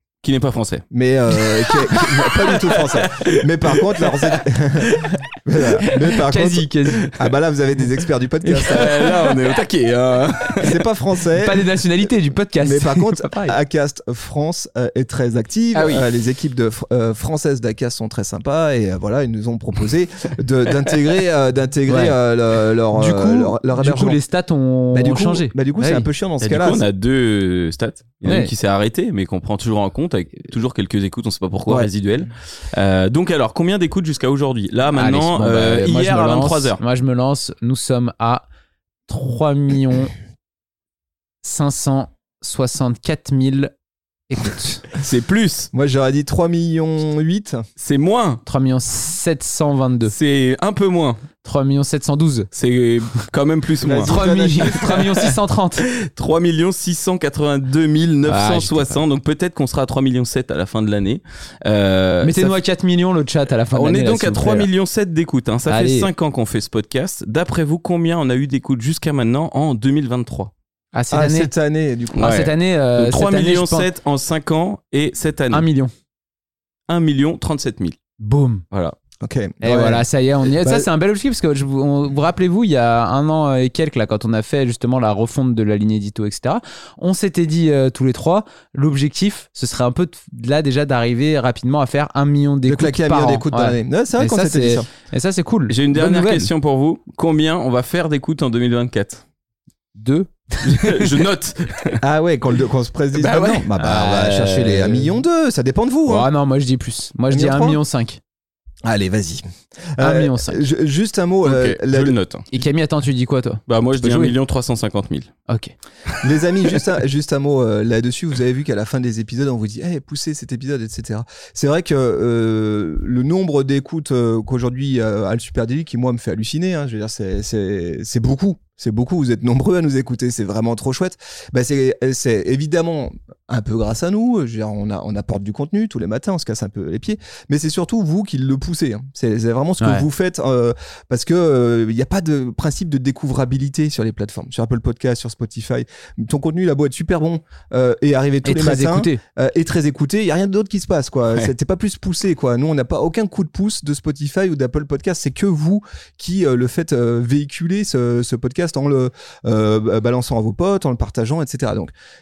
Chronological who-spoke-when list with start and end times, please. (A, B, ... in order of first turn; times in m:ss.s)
0:00.2-0:05.2 A
0:00.9-0:09.3 B
0:05.8-0:06.2 A
0:06.2-0:07.1 C
0:08.5-0:10.8 A
0:10.6-0:12.0 B
0:11.4-0:13.6 C
0:12.6-0:24.2 B
0:15.8-0:16.0 A
0:21.9-0:22.2 C
0:22.9-0:26.1 C
0:24.9-0:26.8 B
0:26.4-0:36.8 A
0:28.2-0:28.5 C
0:34.9-0:38.5 C
0:39.1-0:40.1 C
0:41.4-0:43.7 C
0:44.3-0:44.8 C
0:45.0-0:45.7 A
0:45.7-0:47.7 B
0:47.8-0:48.4 A
0:48.5-0:50.1 C
0:50.1-0:51.2 A
0:51.4-0:52.5 C
0:52.5-0:55.0 A
0:53.8-0:55.0 B
0:54.0-0:55.9 C
0:56.0-1:02.4 A
0:58.3-0:59.0 C
1:02.2-1:04.7 C
1:03.7-1:10.5 A
1:05.7-1:06.1 C
1:11.0-1:11.5 C
1:11.1-1:12.4 B
1:12.2-1:15.7 A
1:12.2-1:13.9 C
1:15.5-1:15.9 C
1:16.9-1:18.0 A
1:18.2-1:18.6 C
1:19.2-1:20.9 B
1:19.6-1:36.5 C
1:32.7-1:34.9 B
1:35.7-1:39.2 A
1:40.0-1:41.2 C
1:40.6-1:42.0 A
1:42.0-1:46.3 B
1:43.2-1:45.1 C
1:46.1-1:48.2 C
1:47.3-1:47.8 B
1:48.8-1:49.4 B
1:50.0-1:52.2 B
1:50.0-1:50.7 C
1:51.4-1:52.5 A
1:52.5-1:54.3 C
1:53.7-1:55.3 A
1:55.5-1:55.7 C
1:56.2-2:41.9 B
2:28.4-2:29.2 C